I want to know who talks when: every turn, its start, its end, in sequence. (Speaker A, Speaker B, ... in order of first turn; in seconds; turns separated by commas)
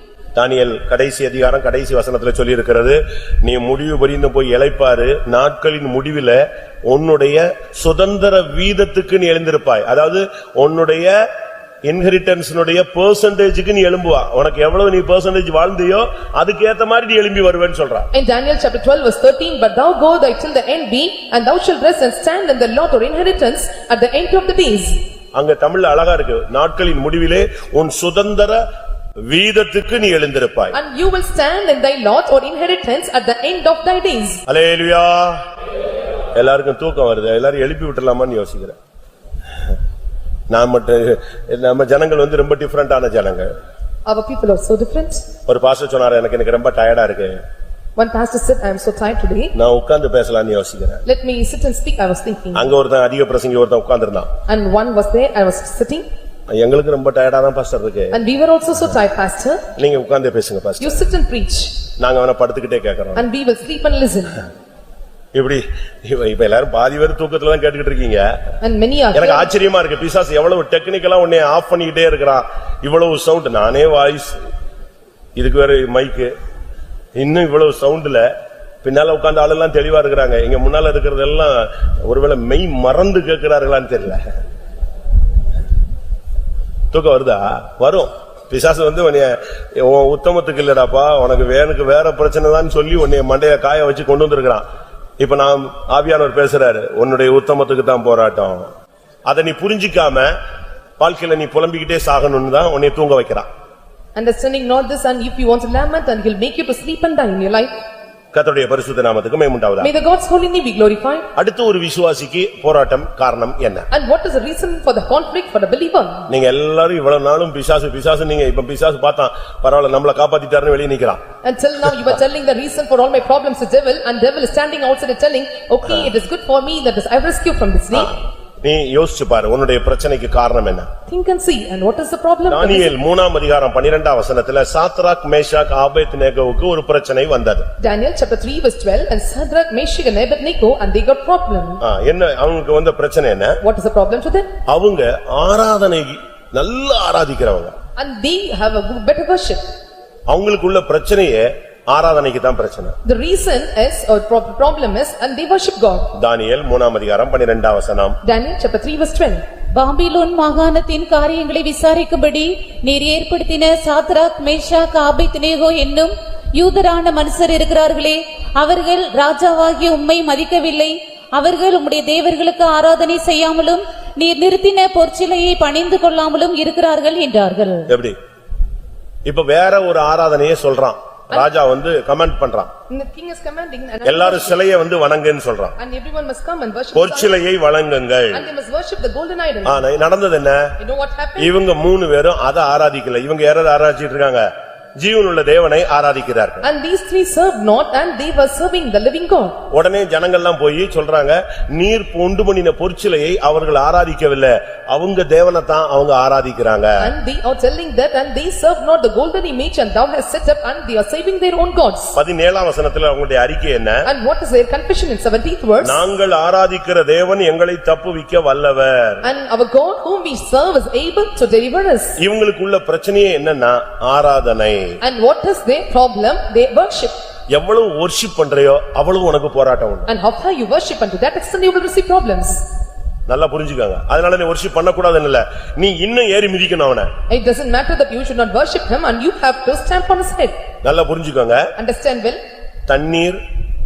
Speaker A: 0.3-11.1, Speaker A: 11.8-18.1, Speaker B: 18.1-25.0, Speaker A: 25.3-28.6, Speaker A: 29.3-30.8, Speaker B: 30.7-34.4, Speaker A: 34.5-35.4, Speaker A: 36.3-38.8, Speaker A: 40.5-43.5, Speaker B: 44.0-45.2, Speaker A: 45.5-47.4, Speaker B: 48.0-49.5, Speaker A: 49.5-51.0, Speaker B: 51.0-52.7, Speaker A: 52.5-54.3, Speaker B: 54.5-56.1, Speaker A: 56.5-58.2, Speaker B: 58.1-59.7, Speaker A: 59.8-61.0, Speaker B: 60.8-61.8, Speaker A: 62.0-63.3, Speaker B: 63.1-64.4, Speaker A: 65.3-68.3, Speaker B: 68.6-69.5, Speaker A: 69.1-74.4, Speaker A: 75.3-76.3, Speaker A: 77.2-78.3, Speaker A: 78.8-84.2, Speaker A: 86.9-94.6, Speaker A: 95.2-98.7, Speaker A: 99.3-100.3, Speaker A: 101.0-103.5, Speaker B: 104.2-107.7, Speaker A: 108.3-109.9, Speaker B: 109.8-111.3, Speaker A: 111.3-113.9, Speaker B: 113.9-116.3, Speaker A: 116.3-121.2, Speaker B: 121.4-128.1, Speaker A: 127.9-130.9, Speaker B: 131.1-132.9, Speaker A: 132.5-137.6, Speaker B: 137.8-141.8, Speaker A: 141.8-143.6, Speaker B: 143.6-144.5, Speaker A: 144.7-147.7, Speaker B: 148.0-149.6, Speaker A: 150.3-152.9, Speaker B: 153.0-156.1, Speaker A: 156.1-158.2, Speaker B: 158.2-159.4, Speaker C: 159.7-177.9, Speaker A: 177.9-178.2, Speaker A: 179.2-182.7, Speaker B: 182.9-184.6, Speaker A: 184.0-185.7, Speaker B: 185.8-187.4, Speaker A: 186.9-188.4, Speaker B: 188.3-189.8, Speaker A: 189.6-190.7, Speaker B: 190.8-191.5, Speaker A: 191.4-194.5, Speaker A: 195.0-196.7, Speaker B: 196.6-199.6, Speaker A: 199.7-207.1, Speaker B: 207.0-212.2, Speaker A: 212.1-214.1, Speaker B: 214.1-216.0, Speaker A: 215.8-219.2, Speaker B: 219.2-222.2, Speaker A: 222.2-225.0, Speaker B: 225.0-227.1, Speaker A: 227.5-230.1, Speaker B: 230.1-232.6, Speaker A: 233.3-237.1, Speaker B: 237.3-240.6, Speaker A: 240.8-241.7, Speaker B: 241.8-242.4, Speaker A: 242.9-243.4